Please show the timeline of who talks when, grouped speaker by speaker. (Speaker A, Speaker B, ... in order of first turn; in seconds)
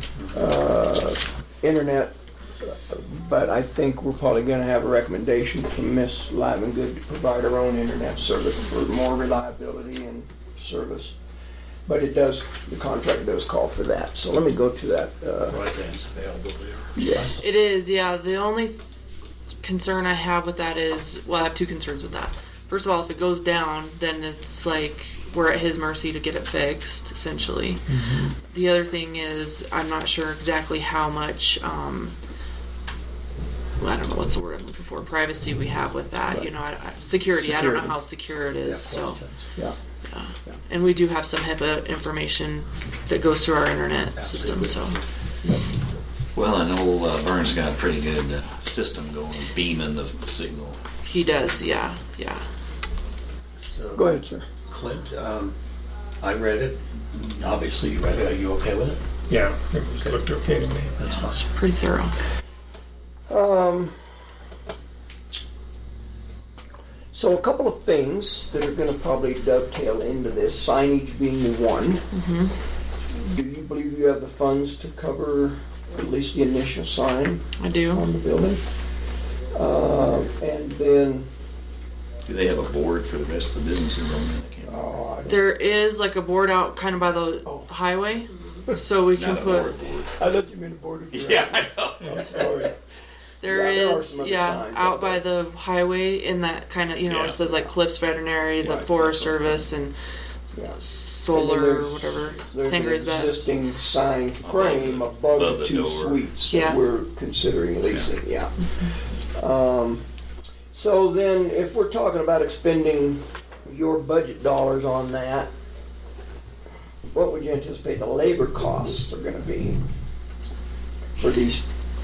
Speaker A: 0.3-11.2, 11.8-15.6, 16.9-17.3, 36.3-36.5, 37.4-38.0, 53.9-54.5, 63.3-64.0, 67.1-72.1, 73.1-78.6, 79.5-81.3, 84.6-85.4, 90.1-92.8, 93.4-95.2, 100.5-110.0, 110.7-115.5, 117.1-119.8, 121.2-121.6
Speaker B: 15.5-17.4, 38.6-39.5, 44.1-45.0, 53.5-54.1, 54.7-55.5, 56.2-59.0, 61.0-61.4
Speaker C: 17.4-18.9, 19.6-32.1, 33.8-39.2, 40.1-45.0, 51.0-52.4, 61.0-62.1, 72.1-72.5, 77.6-78.0, 85.2-89.7, 93.4-99.9, 100.7-103.5, 106.5-106.8
Speaker D: 27.9-28.3, 59.3-61.0, 92.0-92.3
Speaker E: 46.3-50.8, 82.2-84.8, 89.1-90.1, 91.1-92.5, 97.1-97.7, 98.6-99.7, 104.4-106.2